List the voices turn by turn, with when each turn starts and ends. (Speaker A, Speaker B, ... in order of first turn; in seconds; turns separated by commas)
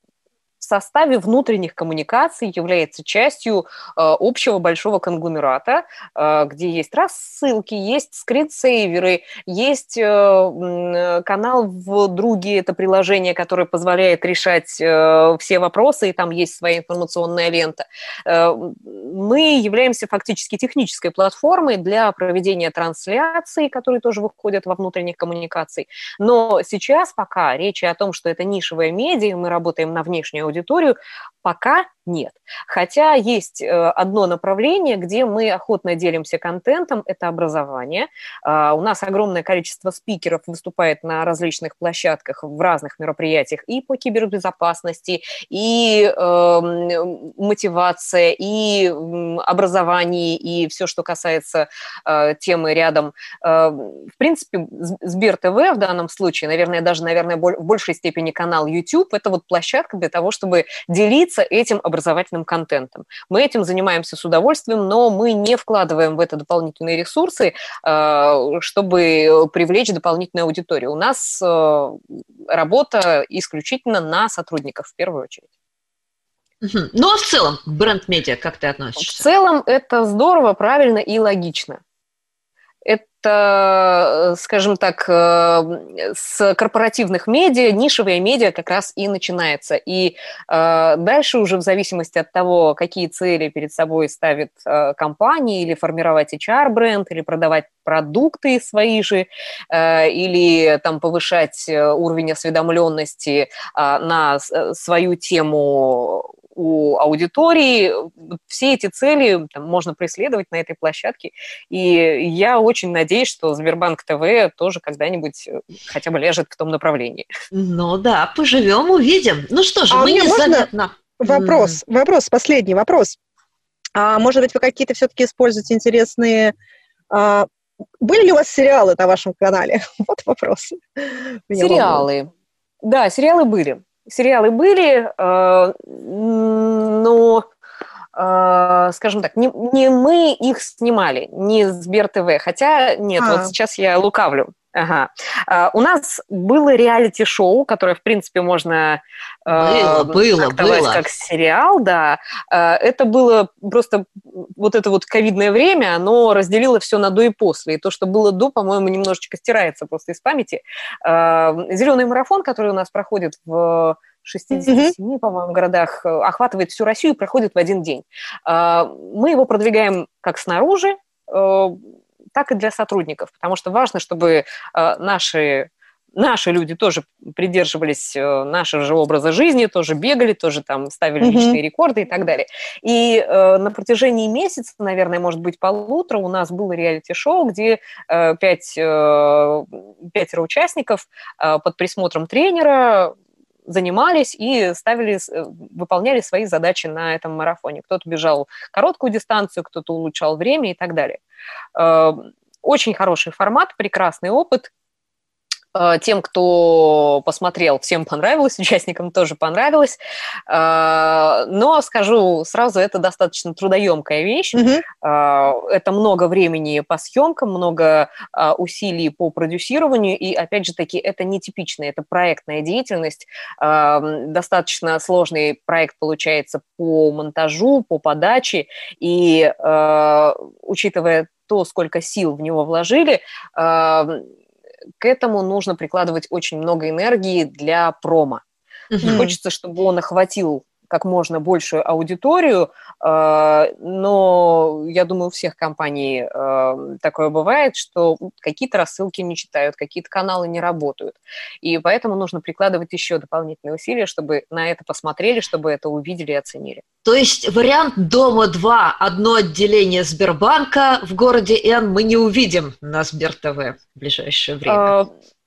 Speaker A: 0.6-72.0, Speaker A: 72.5-75.4, Speaker B: 76.6-79.3, Speaker A: 79.0-81.8, Speaker A: 82.8-117.3, Speaker B: 117.5-121.8, Speaker C: 119.9-120.7, Speaker C: 121.2-123.2, Speaker C: 123.9-126.5, Speaker C: 127.1-127.5, Speaker C: 128.0-132.1, Speaker A: 131.6-132.3, Speaker A: 132.8-137.4, Speaker A: 138.2-171.8, Speaker C: 143.2-143.5, Speaker B: 149.5-151.0, Speaker C: 164.5-164.9, Speaker A: 172.3-193.1, Speaker C: 181.2-181.6, Speaker A: 193.7-201.2, Speaker A: 201.8-204.7, Speaker A: 205.7-210.0, Speaker A: 210.5-234.2, Speaker C: 214.5-214.8, Speaker A: 235.0-238.4, Speaker B: 238.9-239.2, Speaker A: 239.0-256.8, Speaker C: 239.0-239.3, Speaker B: 257.0-264.9, Speaker A: 264.7-265.1